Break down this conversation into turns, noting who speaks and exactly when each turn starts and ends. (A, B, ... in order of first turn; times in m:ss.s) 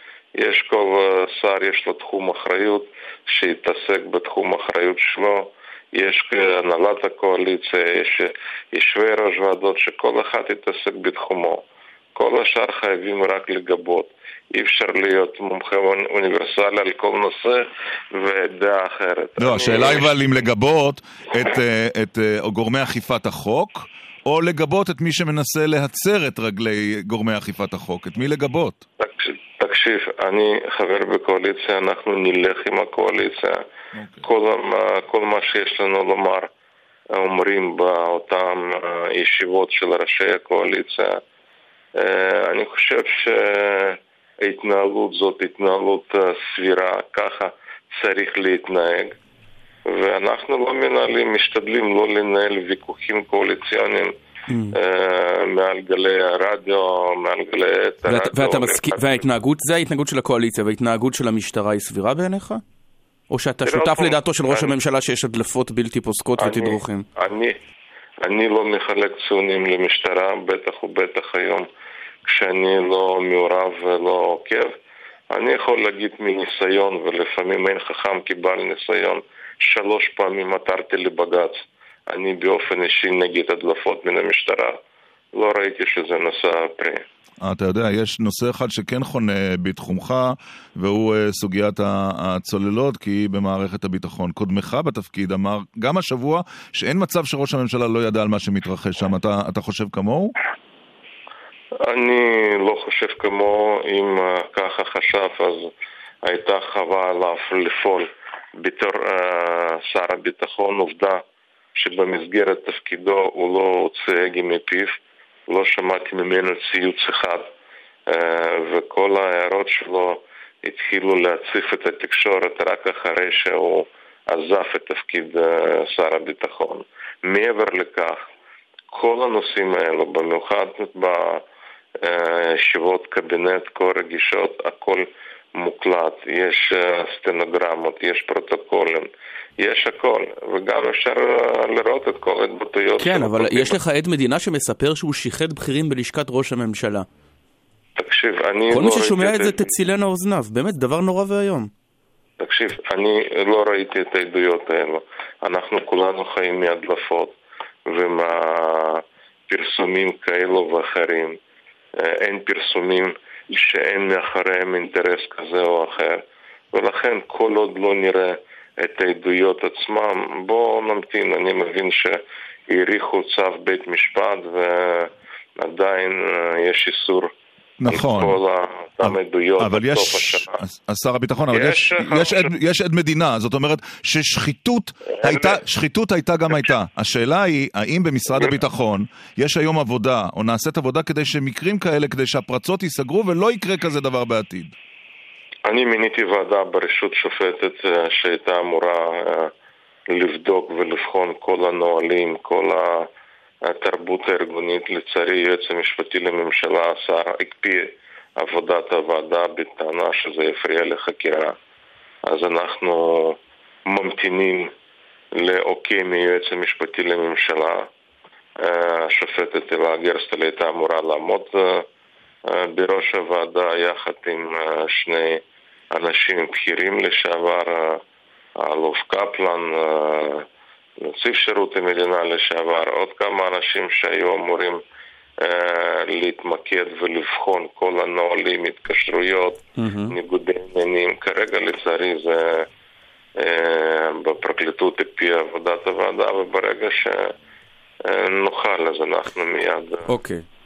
0:00.4-0:20.1 A
0:19.4-0:28.8 B
0:29.0-0:33.5 A
0:34.0-0:34.2 B
0:34.2-0:36.5 A
0:37.1-0:41.2 A
0:42.0-0:49.1 A
0:49.9-0:54.1 A
0:54.5-0:54.8 C
0:54.7-0:59.2 A
0:58.0-1:02.6 C
1:03.3-1:07.0 C
1:03.6-1:04.7 A
1:06.4-1:07.6 A
1:08.2-1:11.7 A
1:12.2-1:14.7 A
1:15.3-1:24.8 A
1:25.3-1:27.0 A
1:27.4-1:40.3 B
1:41.8-1:45.7 A
1:46.2-1:48.1 A
1:48.6-1:51.2 A
1:51.7-1:55.0 A
1:55.5-1:57.5 A
1:58.1-2:08.2 A
2:08.9-2:11.4 A
2:12.0-2:19.1 A
2:19.6-2:23.8 A
2:23.0-2:27.1 C
2:28.0-2:29.6 A
2:28.7-2:31.7 C
2:32.4-2:37.3 A
2:37.9-2:41.4 A
2:42.0-2:46.2 A
2:46.7-2:52.2 A
2:52.7-2:57.3 A
2:57.8-2:58.4 B
2:57.9-3:00.6 A
2:59.0-3:14.7 B
3:01.5-3:02.5 A
3:05.2-3:05.6 A
3:15.6-3:19.5 A
3:20.1-3:23.1 A
3:23.6-3:31.5 A
3:32.2-3:34.7 A
3:35.3-3:37.9 A
3:38.6-3:41.8 A
3:42.5-3:48.0 A
3:48.6-3:50.4 A
3:51.0-3:54.8 A
3:55.4-4:02.7 A
3:59.8-4:00.1 C
4:03.4-4:07.3 A
4:08.0-4:10.1 A
4:10.1-4:10.4 C